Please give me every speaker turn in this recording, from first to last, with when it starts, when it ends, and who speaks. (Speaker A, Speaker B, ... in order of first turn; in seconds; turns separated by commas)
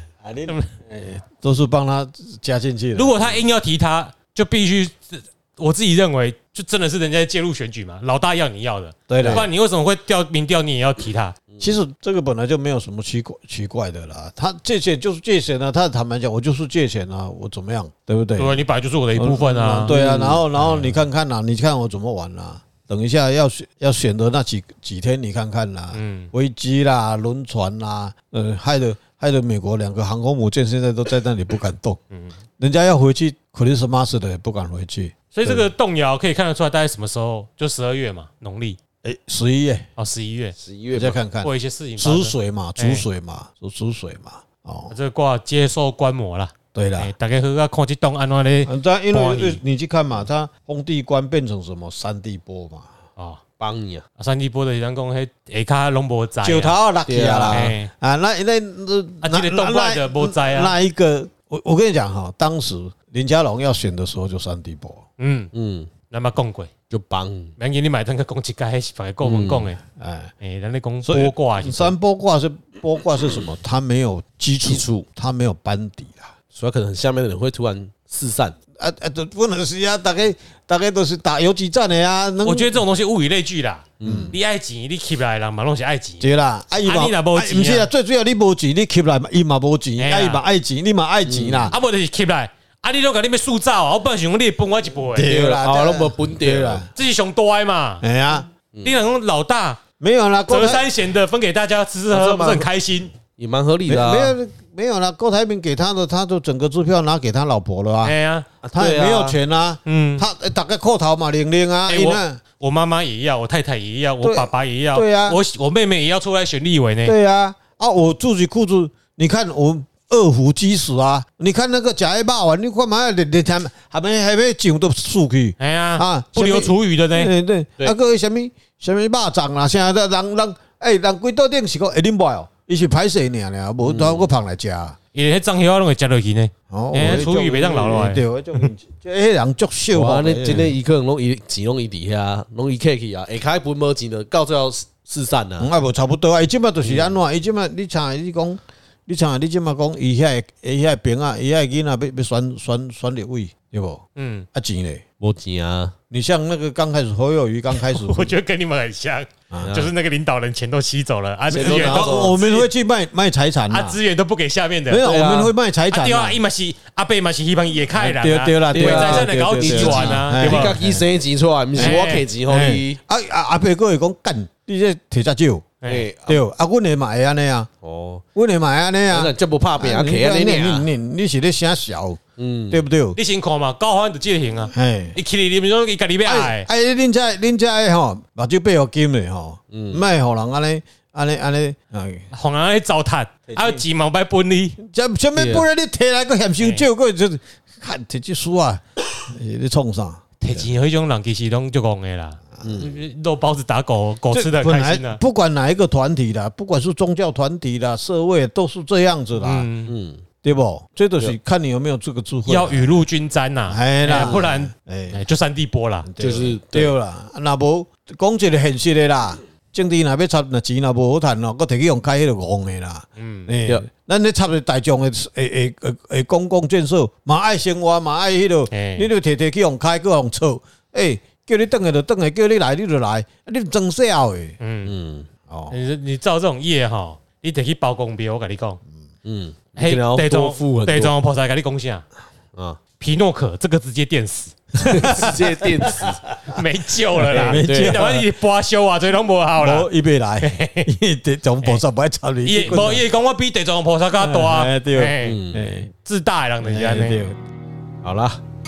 Speaker A: 0.2-3.4, Speaker B: 3.0-11.4, Speaker A: 9.1-9.5, Speaker C: 9.2-9.4, Speaker C: 11.5-11.8, Speaker A: 11.6-18.6, Speaker B: 18.4-19.9, Speaker A: 19.1-32.0, Speaker C: 19.9-20.4, Speaker B: 25.9-26.3, Speaker A: 32.6-35.7, Speaker B: 35.3-38.8, Speaker A: 39.0-39.9, Speaker B: 40.0-40.6, Speaker C: 40.6-41.2, Speaker A: 40.9-45.0, Speaker B: 41.4-43.0, Speaker B: 44.9-49.6, Speaker A: 46.7-47.1, Speaker A: 48.6-52.9, Speaker C: 53.6-54.0, Speaker B: 54.2-56.8, Speaker A: 56.4-65.0, Speaker C: 57.1-57.7, Speaker B: 57.5-57.9, Speaker B: 59.2-60.7, Speaker B: 65.2-65.5, Speaker C: 65.5-65.9, Speaker B: 66.1-66.7, Speaker C: 66.9-67.5, Speaker B: 67.6-69.8, Speaker C: 69.2-69.8, Speaker A: 69.9-70.3, Speaker B: 70.4-71.9, Speaker A: 71.0-76.3, Speaker C: 74.6-75.1, Speaker C: 76.5-78.6, Speaker A: 78.8-82.8, Speaker B: 82.5-86.3, Speaker C: 84.0-84.3, Speaker A: 84.0-84.3, Speaker A: 86.2-91.8, Speaker B: 86.8-87.9, Speaker B: 90.0-90.4, Speaker C: 91.3-91.7, Speaker B: 91.7-95.4, Speaker A: 95.1-96.9, Speaker C: 95.3-96.9, Speaker B: 97.0-98.0, Speaker A: 98.0-98.5, Speaker C: 98.7-99.0, Speaker B: 98.8-99.8, Speaker A: 100.0-100.9, Speaker B: 100.5-103.1, Speaker A: 102.1-102.7, Speaker C: 103.4-104.4, Speaker A: 103.9-108.2, Speaker B: 108.0-108.5, Speaker C: 108.6-109.4, Speaker A: 108.7-112.4, Speaker B: 109.9-110.3, Speaker B: 111.9-117.2, Speaker A: 114.2-115.4, Speaker A: 117.0-135.0, Speaker B: 125.6-127.3, Speaker C: 133.9-134.3, Speaker B: 135.1-138.2, Speaker A: 136.7-140.8, Speaker C: 139.9-145.7, Speaker A: 145.6-155.0, Speaker C: 146.8-147.2, Speaker B: 154.2-154.5, Speaker C: 155.2-155.9, Speaker A: 156.1-158.4, Speaker B: 157.7-162.7, Speaker C: 159.6-159.9, Speaker C: 161.5-162.3, Speaker A: 161.5-164.0, Speaker B: 163.7-165.1, Speaker A: 164.9-166.4, Speaker C: 165.0-165.5, Speaker B: 165.9-170.8, Speaker A: 167.9-171.1, Speaker C: 168.7-173.0, Speaker A: 171.7-175.7, Speaker B: 171.8-172.2, Speaker B: 175.8-176.1, Speaker C: 175.8-176.4, Speaker A: 176.3-177.7, Speaker C: 177.8-178.2, Speaker A: 178.3-183.2, Speaker C: 179.1-180.9, Speaker C: 182.4-182.8, Speaker B: 183.2-186.7, Speaker A: 184.7-185.2, Speaker A: 186.2-192.3, Speaker C: 189.7-190.1, Speaker B: 192.3-194.8, Speaker A: 193.5-193.8, Speaker A: 194.8-200.7, Speaker C: 195.3-195.7, Speaker B: 196.6-196.8, Speaker B: 200.4-205.2, Speaker C: 202.6-203.0, Speaker A: 204.3-209.7, Speaker B: 209.4-209.9, Speaker C: 209.9-210.2, Speaker A: 210.4-213.0, Speaker B: 212.5-216.1, Speaker A: 213.7-215.2, Speaker C: 214.2-214.5, Speaker A: 216.0-234.6, Speaker C: 216.2-216.9, Speaker B: 223.2-223.5, Speaker B: 228.7-229.1, Speaker B: 234.6-234.9, Speaker C: 234.8-235.3, Speaker A: 235.5-235.8, Speaker B: 235.7-238.8, Speaker C: 239.2-241.1, Speaker B: 239.8-242.1, Speaker C: 242.6-242.8, Speaker B: 243.0-245.3, Speaker C: 244.8-246.2, Speaker A: 244.8-246.6, Speaker B: 246.5-249.9, Speaker A: 247.2-248.3, Speaker C: 247.3-248.1, Speaker A: 249.6-253.1, Speaker B: 250.4-250.9, Speaker B: 252.4-255.4, Speaker A: 254.2-255.9, Speaker C: 255.2-255.7, Speaker B: 256.0-257.2, Speaker A: 256.6-257.4, Speaker C: 258.0-258.4